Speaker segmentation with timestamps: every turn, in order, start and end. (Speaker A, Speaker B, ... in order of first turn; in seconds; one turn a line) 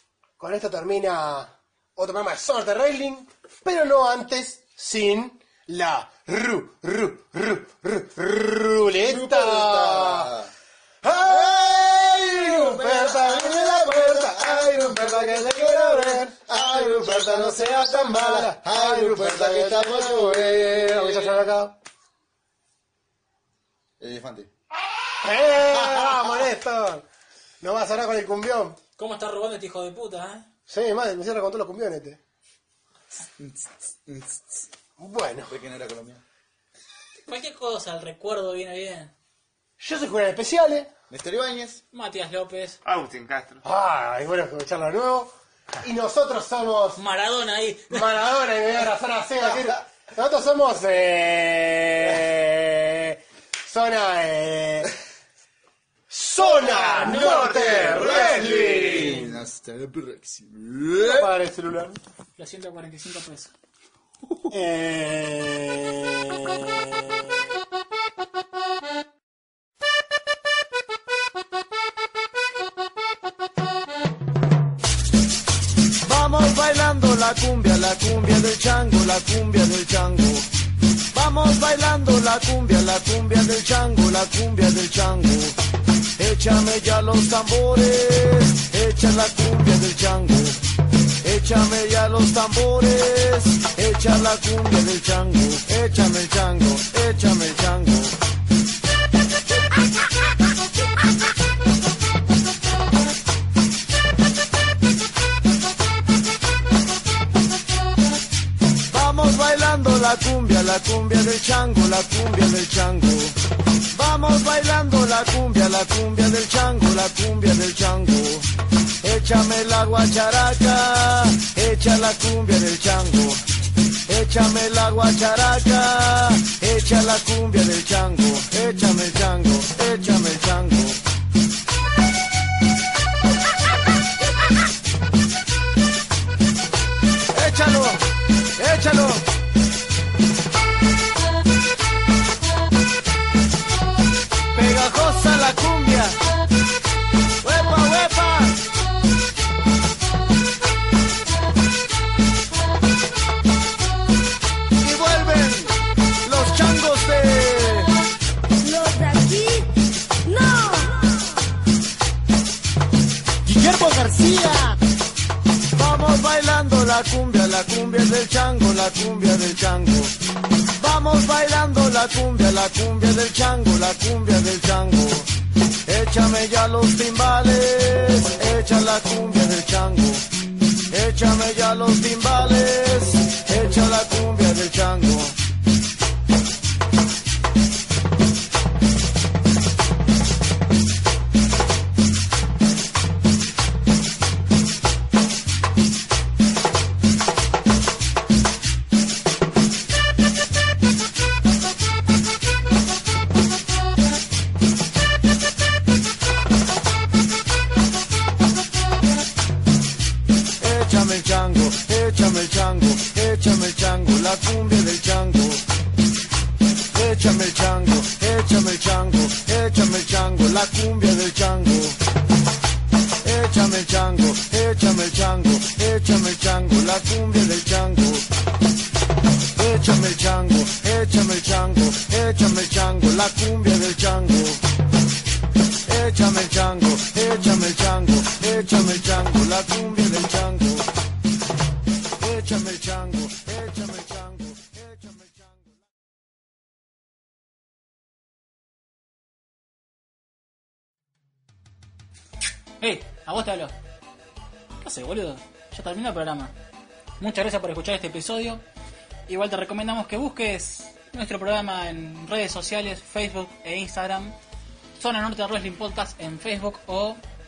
Speaker A: 0.4-10.4
Speaker B: 9.0-10.5
Speaker A: 11.0-21.8
Speaker B: 11.3-21.5
Speaker B: 24.0-24.5
Speaker A: 25.2-27.1
Speaker B: 25.8-26.3
Speaker A: 27.6-28.8
Speaker C: 29.0-30.5
Speaker A: 30.7-32.2
Speaker B: 33.4-34.7
Speaker A: 35.0-35.5
Speaker B: 35.5-36.2
Speaker C: 37.3-39.1
Speaker A: 39.8-40.9
Speaker B: 41.1-41.8
Speaker C: 41.9-42.8
Speaker D: 42.8-43.6
Speaker A: 43.6-47.0
Speaker C: 47.0-48.2
Speaker A: 47.9-54.9
Speaker A: 56.1-59.4
Speaker D: 56.4-59.2
Speaker B: 57.0-61.3
Speaker A: 61.0-62.0
Speaker C: 62.4-63.5
Speaker B: 64.2-64.5
Speaker A: 64.5-67.2
Speaker E: 76.0-80.5
Speaker E: 81.1-85.5
Speaker E: 86.2-90.6
Speaker E: 91.2-98.2
Speaker E: 108.9-113.4
Speaker E: 113.9-118.5
Speaker E: 119.0-123.4
Speaker E: 124.1-131.0
Speaker E: 137.3-139.3
Speaker E: 144.5-146.2
Speaker E: 147.4-148.7
Speaker E: 154.8-157.9
Speaker F: 158.6-161.4
Speaker E: 163.5-164.8
Speaker E: 165.8-170.1
Speaker E: 170.7-175.3
Speaker E: 175.8-180.3
Speaker E: 180.9-185.3
Speaker E: 210.6-215.6
Speaker E: 216.9-222.0
Speaker E: 223.2-228.2
Speaker E: 229.6-234.6
Speaker E: 235.9-240.9
Speaker E: 242.2-245.6
Speaker C: 252.8-253.8
Speaker C: 254.8-256.6
Speaker C: 257.2-258.6
Speaker C: 259.3-264.4
Speaker C: 265.0-267.2